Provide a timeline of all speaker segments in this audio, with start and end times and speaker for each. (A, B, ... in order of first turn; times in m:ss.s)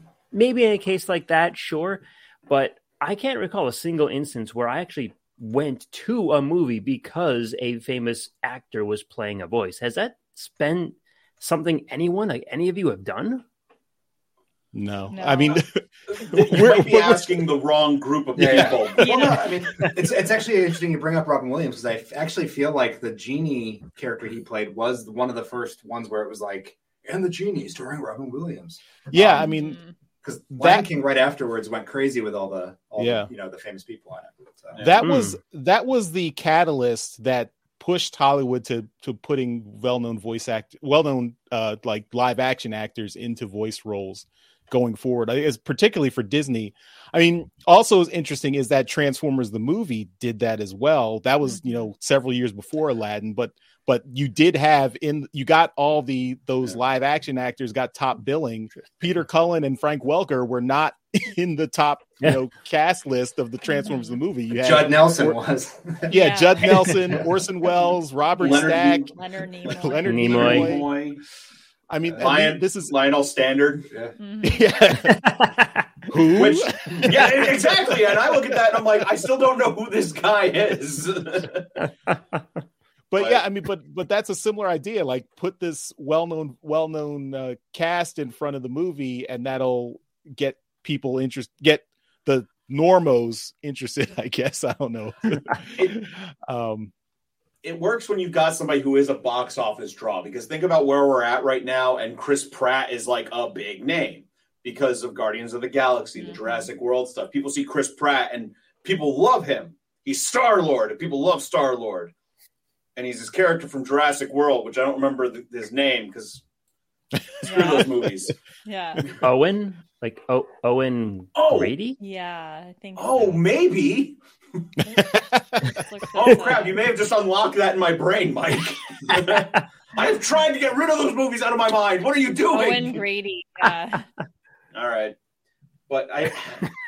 0:00.3-0:13.4 A
0:14.7-0:17.5 B
0:15.1-0:15.6 C
0:16.1-0:19.5 D
0:18.4-0:29.5 E
0:19.0-0:19.5 C
0:29.1-0:29.8 B
0:29.4-0:29.9 C
0:30.2-0:34.8 E
0:30.5-0:30.9 B
0:33.0-0:33.3 B
0:34.7-0:35.1 D
0:34.8-1:05.4 B
0:35.0-0:35.4 A
0:51.5-0:51.9 C
1:03.7-1:04.2 C
1:04.6-1:06.2 E
1:06.1-1:09.1 B
1:06.1-1:06.8 C
1:07.1-1:07.3 E
1:08.4-1:10.2 C
1:08.4-1:09.1 D
1:09.6-1:10.9 B
1:10.0-1:10.8 A
1:10.2-1:11.2 D
1:11.9-1:12.9 B
1:12.2-1:13.9 D
1:14.2-1:14.9 C
1:14.4-1:15.5 B
1:15.0-1:15.8 A
1:16.1-1:18.1 B
1:16.3-1:21.7 D
1:23.1-1:36.9 B
1:23.2-1:23.4 D
1:37.6-1:52.1 D
1:46.2-1:46.7 C
1:53.0-1:56.4 D
1:57.4-1:58.3 D
1:57.4-1:57.9 C
1:58.6-1:59.0 C
1:59.2-2:02.0 A
2:01.4-2:01.7 D
2:02.0-2:03.4 C
2:03.0-2:04.2 D
2:04.9-2:06.8 C
2:05.1-2:05.6 B
2:06.2-2:13.0 D
2:09.2-2:09.4 A
2:12.5-2:14.1 C
2:14.7-2:15.2 D
2:15.9-2:16.7 D